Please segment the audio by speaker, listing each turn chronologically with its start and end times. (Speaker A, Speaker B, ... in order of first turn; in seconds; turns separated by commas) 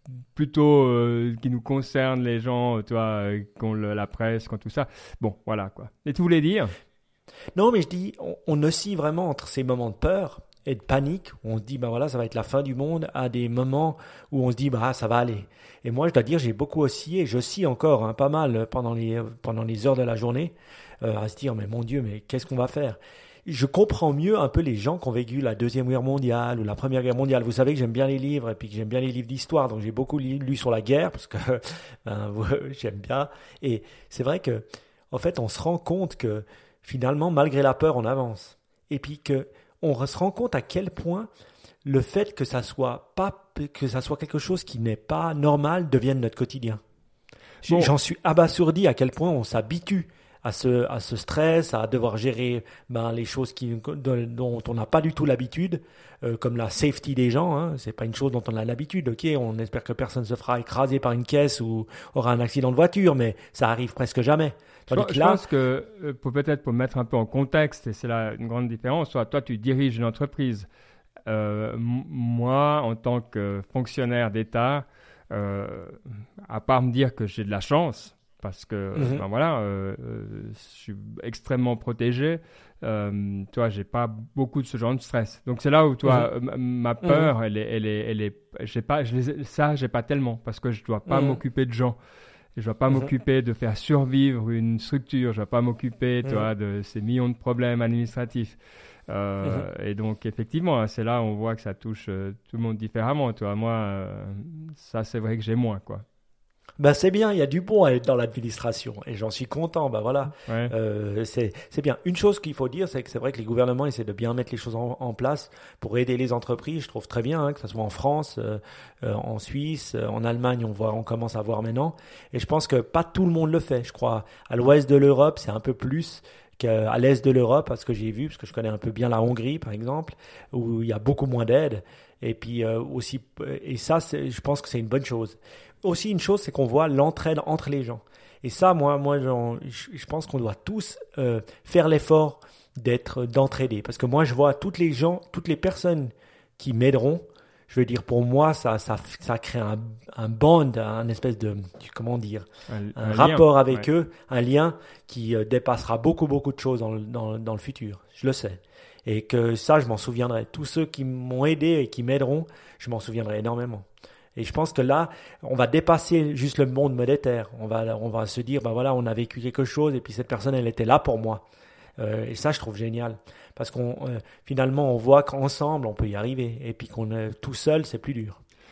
Speaker A: 0.3-6.7, Speaker B: 7.5-41.3, Speaker B: 41.8-46.8, Speaker A: 47.6-47.9, Speaker B: 47.6-65.4, Speaker A: 64.9-70.7, Speaker A: 71.3-92.0, Speaker B: 79.0-79.2, Speaker B: 87.0-87.3, Speaker B: 91.1-91.4, Speaker A: 92.5-98.6, Speaker A: 99.1-106.0, Speaker B: 106.8-171.4, Speaker A: 110.5-110.7, Speaker A: 152.7-153.9, Speaker B: 172.0-178.4